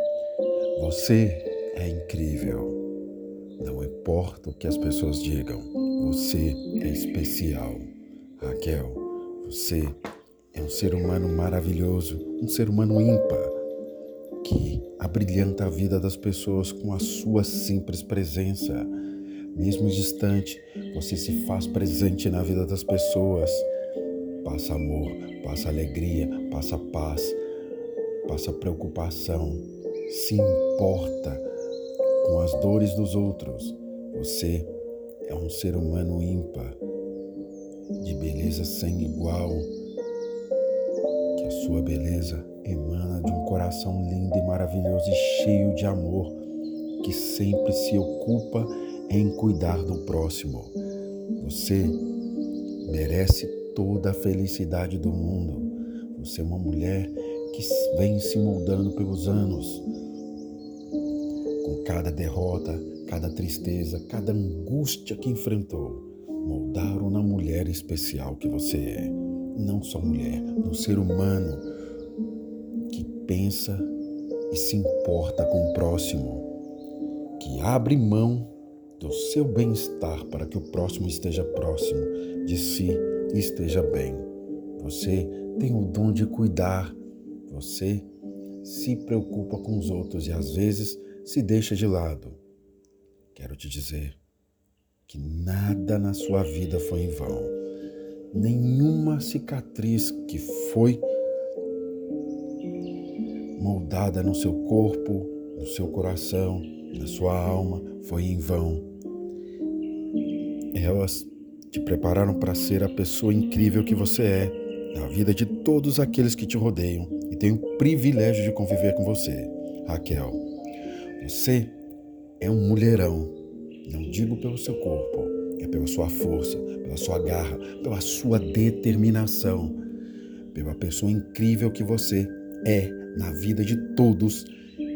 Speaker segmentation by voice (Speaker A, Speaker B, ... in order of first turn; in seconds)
Speaker A: 0.8-2.8, 3.6-10.0, 10.5-13.6, 14.4-18.9, 19.5-23.7, 24.4-27.4, 28.2-31.5, 32.2-34.7, 35.2-36.8, 38.0-39.7, 41.4-46.4, 47.0-50.8, 51.4-52.0, 52.8-59.9, 61.6-71.7, 72.9-73.9, 74.5-76.5, 77.4-88.1, 88.6-92.4, 93.3-94.2, 95.1-97.5, 98.3-101.0, 103.5-108.9, 110.7-120.4, 121.2-121.8, 122.4-129.8, 130.5-134.5